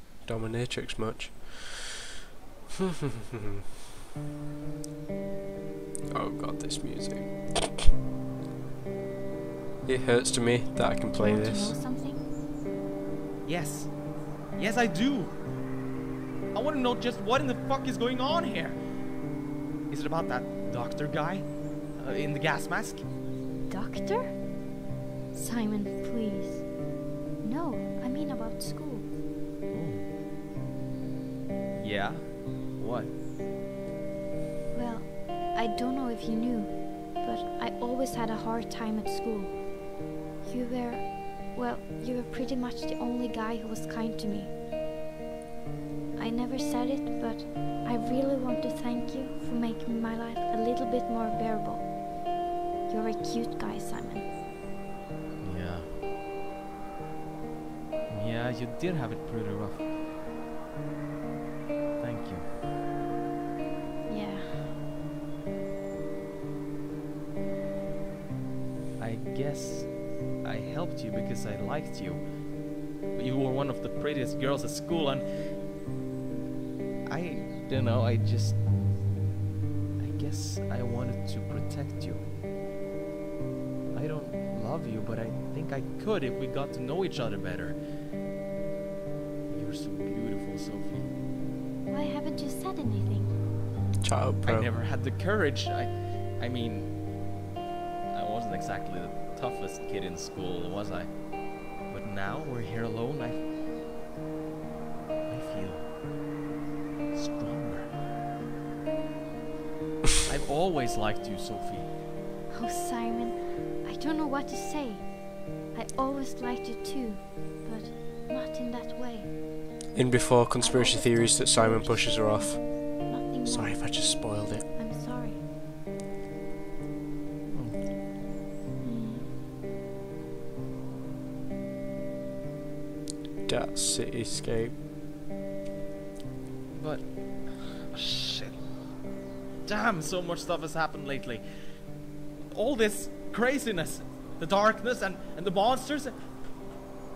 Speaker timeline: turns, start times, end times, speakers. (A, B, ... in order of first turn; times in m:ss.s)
0:00.2-0:02.0 A
0:06.1-0:07.8 A
0:09.9-0:11.8 A
0:11.2-0:12.2 B
0:13.5-0:13.9 C
0:14.6-0:15.3 C
0:16.5-0:18.8 C
0:19.9-0:21.5 C
0:22.0-0:23.0 C
0:23.7-0:24.4 B
0:25.3-0:26.7 B
0:27.4-0:29.1 B
0:29.7-0:30.1 C
0:31.7-0:33.1 C
0:34.7-0:39.6 B
0:40.4-0:44.5 B
0:46.2-0:51.9 B
0:52.9-0:54.3 B
0:55.4-0:55.9 C
0:58.1-0:59.9 C
1:02.0-1:02.5 C
1:04.1-1:04.8 B
1:09.0-1:12.2 C
1:13.1-1:15.3 C
1:17.1-1:18.6 C
1:20.0-1:22.2 C
1:23.9-1:27.8 C
1:29.5-1:31.1 C
1:31.9-1:33.3 B
1:34.0-1:34.7 A
1:34.4-1:36.9 C
1:38.1-1:41.1 C
1:41.9-1:43.4 C
1:45.3-1:45.9 C
1:47.1-1:47.9 C
1:50.3-1:51.9 C
1:52.5-1:55.1 B
1:55.7-1:59.4 B
1:59.9-2:04.7 A
2:00.6-2:04.0 B
2:04.8-2:05.4 B
2:07.5-2:07.8 C
2:08.8-2:09.3 B
2:13.5-2:14.8 A
2:16.7-2:18.6 C
2:19.7-2:21.4 C
2:22.5-2:26.2 C